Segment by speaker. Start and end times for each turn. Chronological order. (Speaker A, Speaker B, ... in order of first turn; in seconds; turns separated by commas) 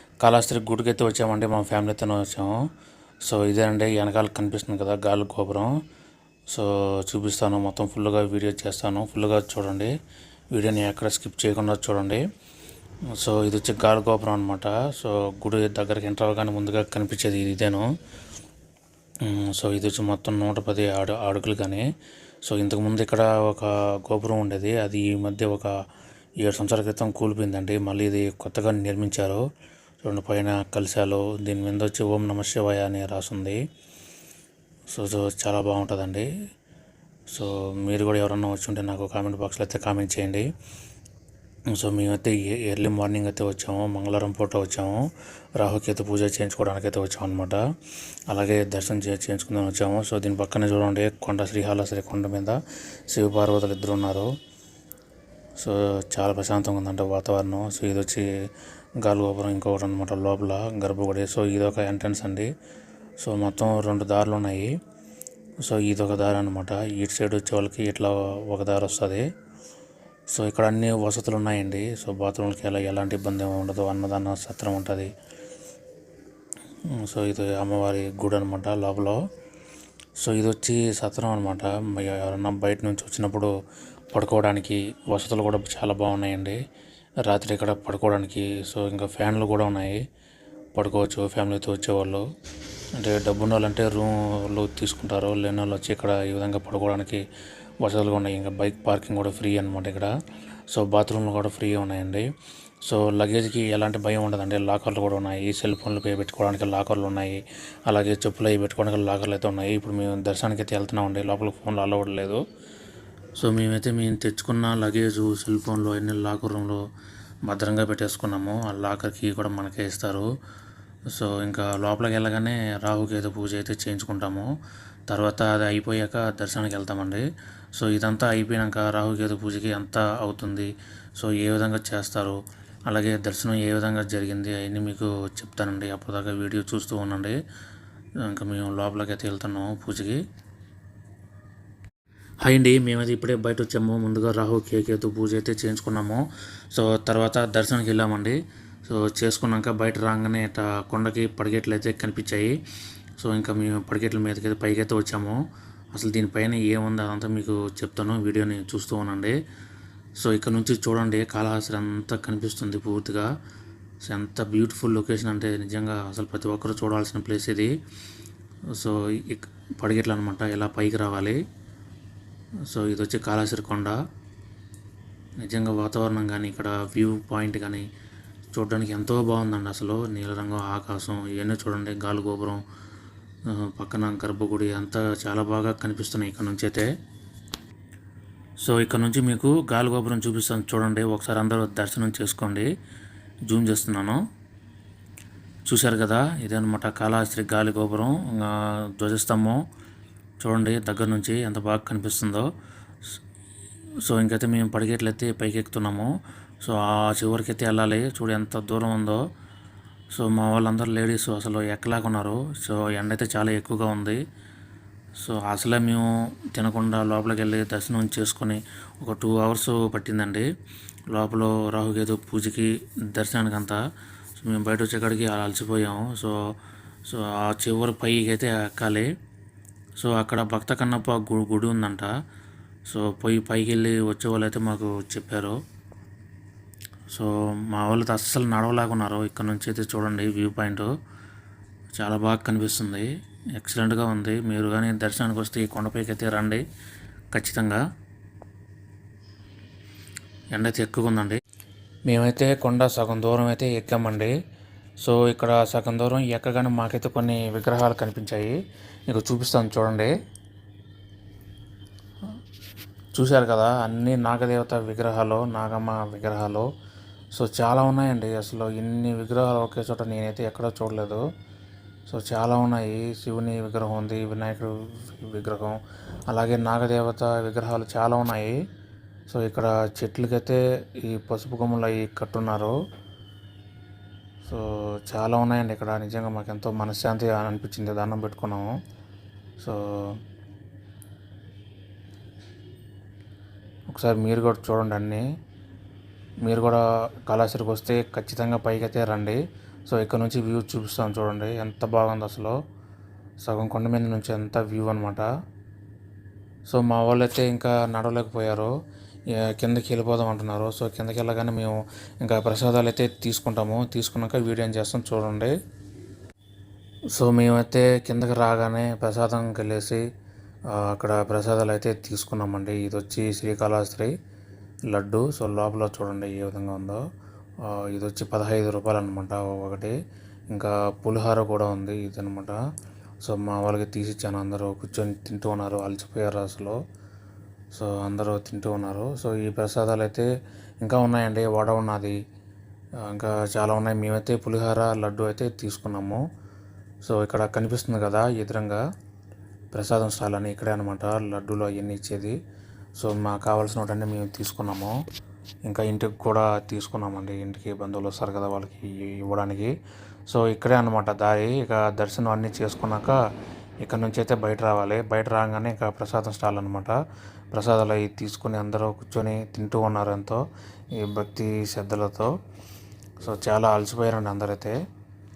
Speaker A: 0.2-2.5, Speaker A: 3.3-5.7, Speaker A: 6.5-9.9, Speaker A: 10.5-12.2, Speaker A: 13.2-17.9, Speaker A: 19.2-21.9, Speaker A: 22.5-25.7, Speaker A: 26.4-29.5, Speaker A: 30.0-33.6, Speaker A: 34.9-36.3, Speaker A: 37.3-40.5, Speaker A: 41.7-45.0, Speaker A: 45.6-47.6, Speaker A: 48.3-52.6, Speaker A: 53.1-54.3, Speaker A: 55.6-58.3, Speaker A: 59.0-62.5, Speaker A: 63.2-64.7, Speaker A: 65.6-69.3, Speaker A: 70.3-75.1, Speaker A: 76.9-79.2, Speaker A: 80.2-83.5, Speaker A: 84.1-86.6, Speaker A: 87.2-90.0, Speaker A: 90.8-92.2, Speaker A: 93.0-97.2, Speaker A: 97.8-100.1, Speaker A: 100.7-102.3, Speaker A: 102.9-112.4, Speaker A: 113.4-116.8, Speaker A: 117.5-120.3, Speaker A: 121.1-124.5, Speaker A: 125.1-132.4, Speaker A: 132.9-137.4, Speaker A: 138.2-140.2, Speaker A: 142.4-152.6, Speaker A: 153.2-155.4, Speaker A: 155.9-159.4, Speaker A: 160.2-163.3, Speaker A: 164.0-167.7, Speaker A: 168.7-171.4, Speaker A: 172.7-174.0, Speaker A: 175.4-177.8, Speaker A: 178.5-182.6, Speaker A: 183.5-186.9, Speaker A: 188.6-192.7, Speaker A: 193.5-194.2, Speaker A: 195.7-199.6, Speaker A: 200.4-202.5, Speaker A: 204.0-206.1, Speaker A: 206.6-209.2, Speaker A: 210.2-214.2, Speaker A: 215.2-220.5, Speaker A: 221.1-223.8, Speaker A: 224.4-226.4, Speaker A: 227.1-229.1, Speaker A: 230.0-232.1, Speaker A: 232.9-235.6, Speaker A: 237.1-240.9, Speaker A: 242.0-246.6, Speaker A: 247.3-247.8, Speaker A: 250.6-251.4, Speaker A: 252.1-254.3, Speaker A: 255.0-260.1, Speaker A: 263.1-266.7, Speaker A: 267.4-271.2, Speaker A: 272.1-278.6, Speaker A: 279.3-282.8, Speaker A: 284.4-288.8, Speaker A: 289.6-290.2, Speaker A: 293.9-295.3, Speaker A: 296.4-302.6, Speaker A: 303.4-305.3, Speaker A: 306.7-308.7, Speaker A: 309.4-315.5, Speaker A: 317.1-320.0, Speaker A: 320.8-324.1, Speaker A: 324.9-327.0, Speaker A: 327.6-330.0, Speaker A: 330.5-332.6, Speaker A: 333.2-336.8, Speaker A: 337.7-340.3, Speaker A: 340.8-342.2, Speaker A: 343.1-346.2, Speaker A: 347.1-348.8, Speaker A: 349.7-352.4, Speaker A: 353.0-355.0, Speaker A: 355.7-359.7, Speaker A: 360.3-363.2, Speaker A: 363.9-367.0, Speaker A: 367.5-370.4, Speaker A: 370.9-372.3, Speaker A: 373.2-374.8